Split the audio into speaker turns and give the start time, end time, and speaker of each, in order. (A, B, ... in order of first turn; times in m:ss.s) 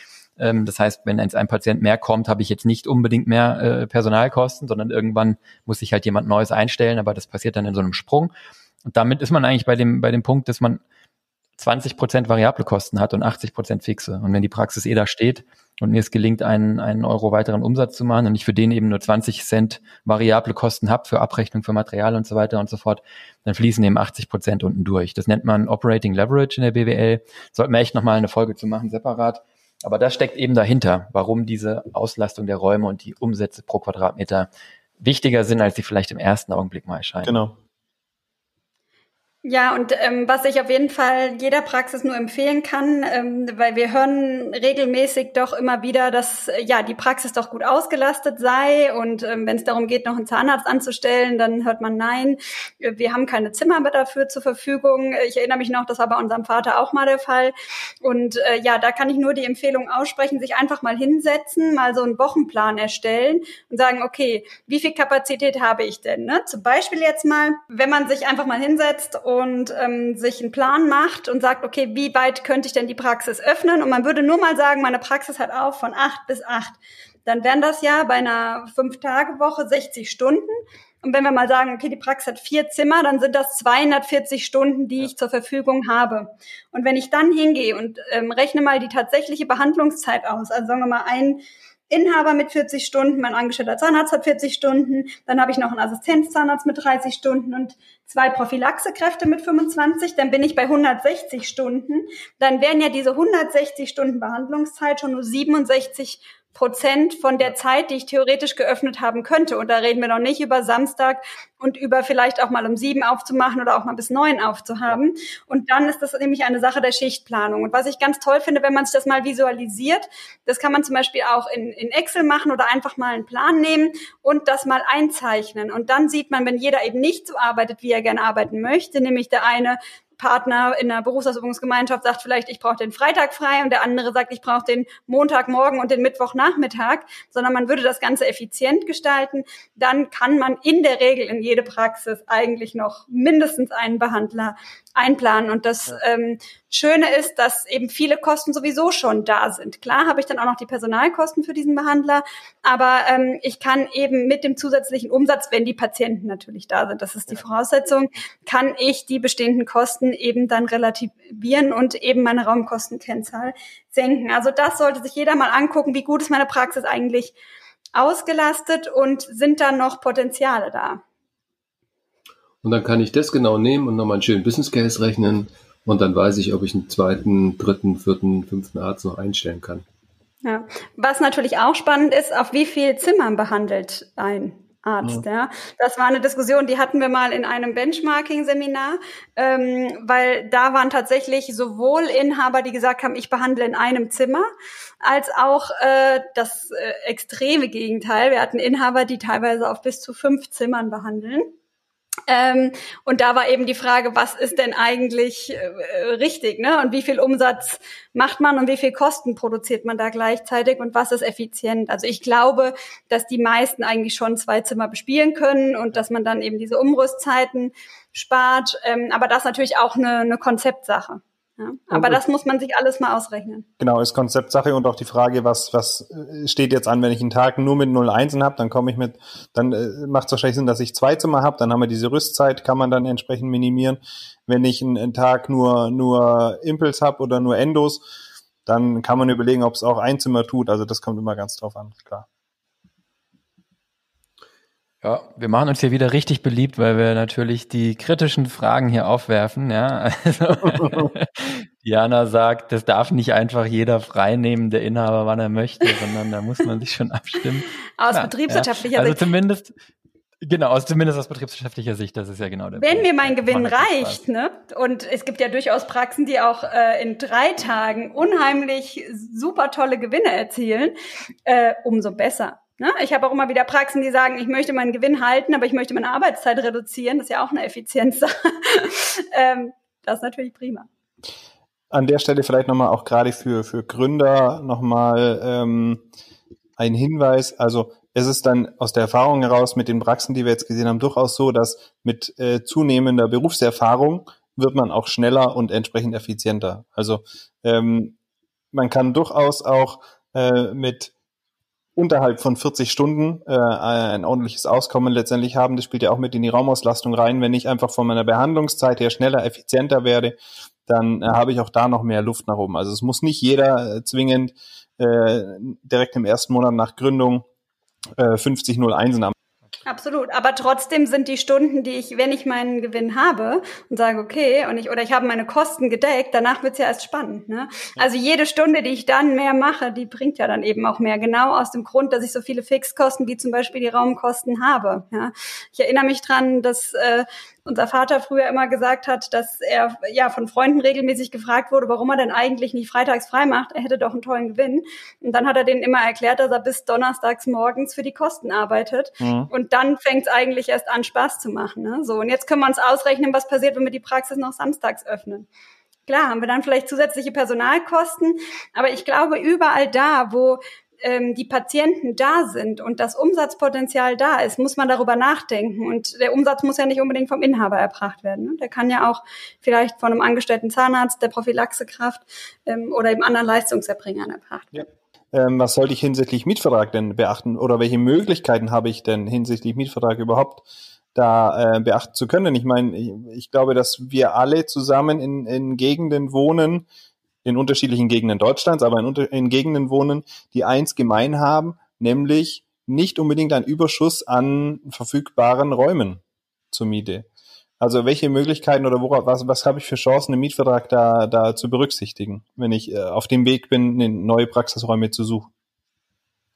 0:00.4-0:08.3 A
0:08.8-0:10.8 A
0:11.6-0:34.5 A
0:35.0-0:37.4 A
0:37.2-0:37.5 B
0:39.4-2:47.3 C
2:47.9-2:51.0 C
2:52.6-2:59.8 D
3:00.4-3:14.5 C
3:15.0-3:21.5 C
3:22.3-3:43.7 C
3:41.9-3:42.2 B
3:43.8-3:58.0 B
3:58.6-4:02.2 B
4:05.0-4:19.7 A
4:18.0-4:19.2 C
4:20.4-4:24.2 A
4:22.7-4:30.9 C
4:31.4-4:40.9 C
4:41.9-4:46.0 B
4:46.8-4:58.1 B
4:58.7-5:01.1 B
5:02.0-5:17.4 B
5:18.2-5:19.3 B
5:19.8-5:55.5 C
5:49.2-5:49.5 B
5:56.1-6:14.8 C
6:14.7-6:26.8 B
6:27.4-6:37.3 B
6:37.8-6:45.5 B